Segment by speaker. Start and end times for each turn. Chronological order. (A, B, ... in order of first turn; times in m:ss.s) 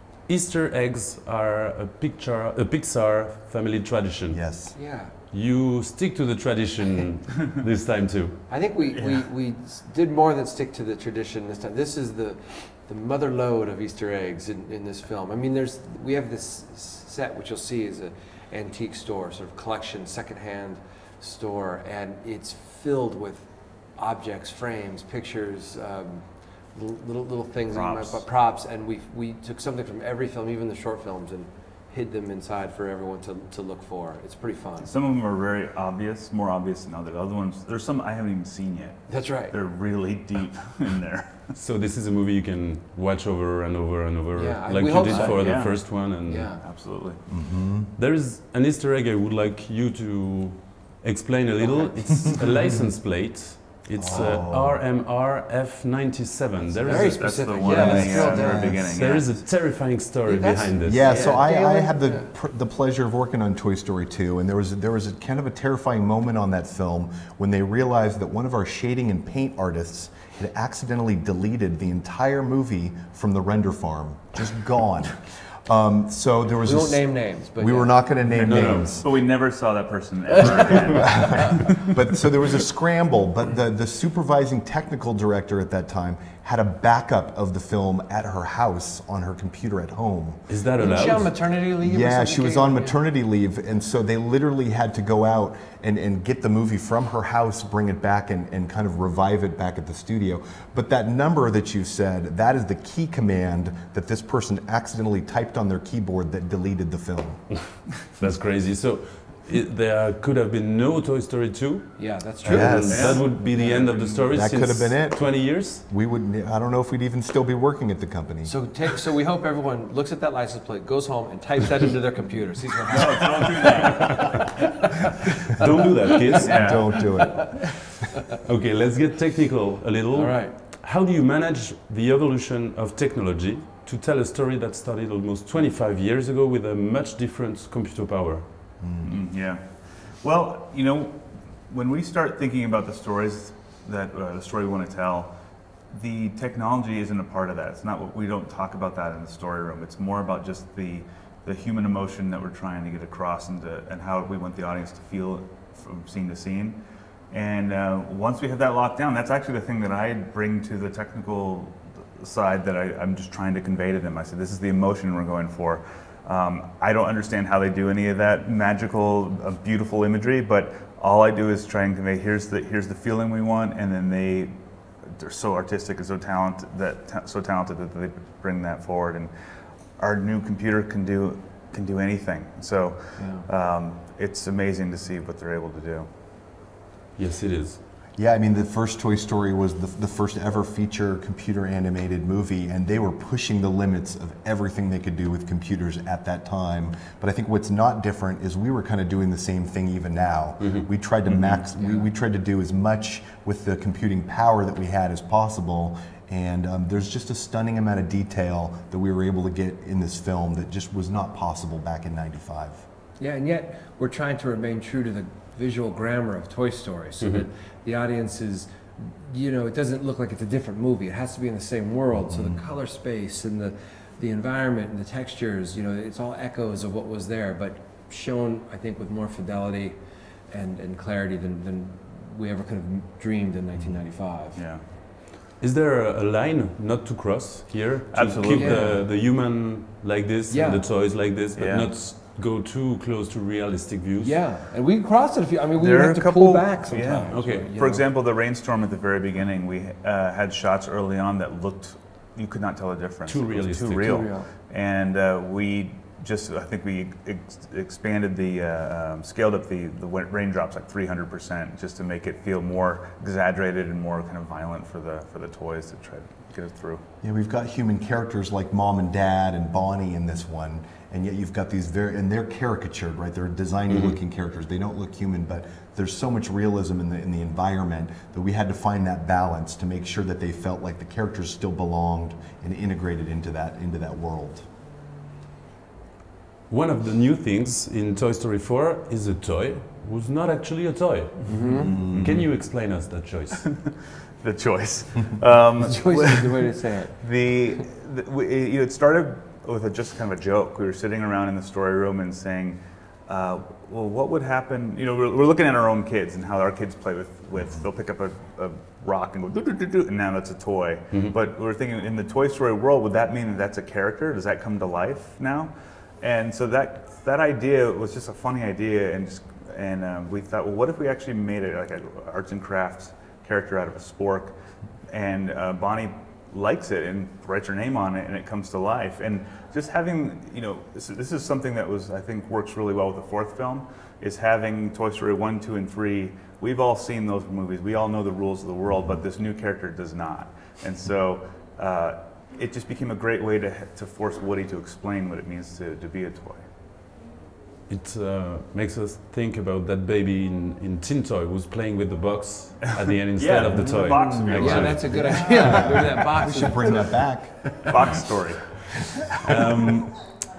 0:00.2-0:04.4 A
0:04.3-0:04.8 B
0:04.7-0:05.1 C
0:05.3-0:08.5 A
0:08.5-0:34.9 C
0:08.9-0:09.2 D
0:27.7-0:28.2 D
0:34.8-0:41.5 D
0:39.1-0:39.6 C
0:41.6-0:46.5 A
0:44.3-0:46.6 C
0:45.1-0:46.0 D
0:46.6-0:47.2 D
0:47.3-0:47.9 B
0:47.9-1:01.3 A
0:51.6-0:52.1 C
0:53.9-0:54.8 B
0:56.8-0:58.8 C
0:56.8-0:59.4 D
0:57.7-0:58.9 B
1:00.2-1:02.3 C
1:00.8-1:19.1 B
1:16.6-1:18.1 C
1:18.4-1:19.0 A
1:19.0-1:21.8 D
1:20.4-1:21.5 C
1:20.7-1:30.4 B
1:30.5-1:31.3 A
1:30.8-1:33.0 C
1:31.8-1:47.4 B
1:48.1-1:55.8 A
1:52.0-1:53.8 C
1:52.4-1:53.3 B
1:52.9-1:54.3 D
1:54.3-1:58.6 B
1:58.4-2:05.1 C
2:02.9-2:04.3 D
2:05.5-2:06.8 A
2:06.0-2:07.5 C
2:06.4-2:06.8 D
2:06.4-2:07.8 B
2:08.4-2:18.4 A
2:10.1-2:10.6 C
2:18.8-2:19.2 B
2:19.0-2:25.4 D
2:25.9-2:54.6 D
2:55.1-3:06.1 D
3:03.2-3:03.4 C
3:07.2-3:07.8 A
3:08.2-3:32.8 B
3:20.6-3:20.9 A
3:21.3-3:21.6 D
3:21.8-3:22.1 C
3:33.2-3:50.0 C
3:42.2-3:42.6 B
3:50.5-3:54.6 C
3:54.6-3:54.8 D
3:55.6-4:04.4 A
3:58.1-3:58.9 D
3:58.4-3:59.1 C
4:00.5-4:00.9 C
4:01.6-4:01.9 D
4:04.2-4:08.1 C
4:05.8-4:27.0 D
4:07.1-4:07.7 A
4:13.3-4:14.3 A
4:14.1-4:14.5 C
4:27.2-4:44.7 B
4:33.9-4:34.2 A
4:46.7-4:53.6 A
4:51.5-4:52.0 C
4:51.8-4:52.4 B
4:52.1-4:52.4 D
4:53.6-5:24.6 D
4:55.8-4:57.8 C
5:25.1-5:46.6 D
5:47.9-5:55.3 A
5:53.4-5:56.1 D
5:53.7-5:58.2 B
5:54.6-5:57.1 C
5:57.8-5:59.3 D
5:59.4-6:00.3 A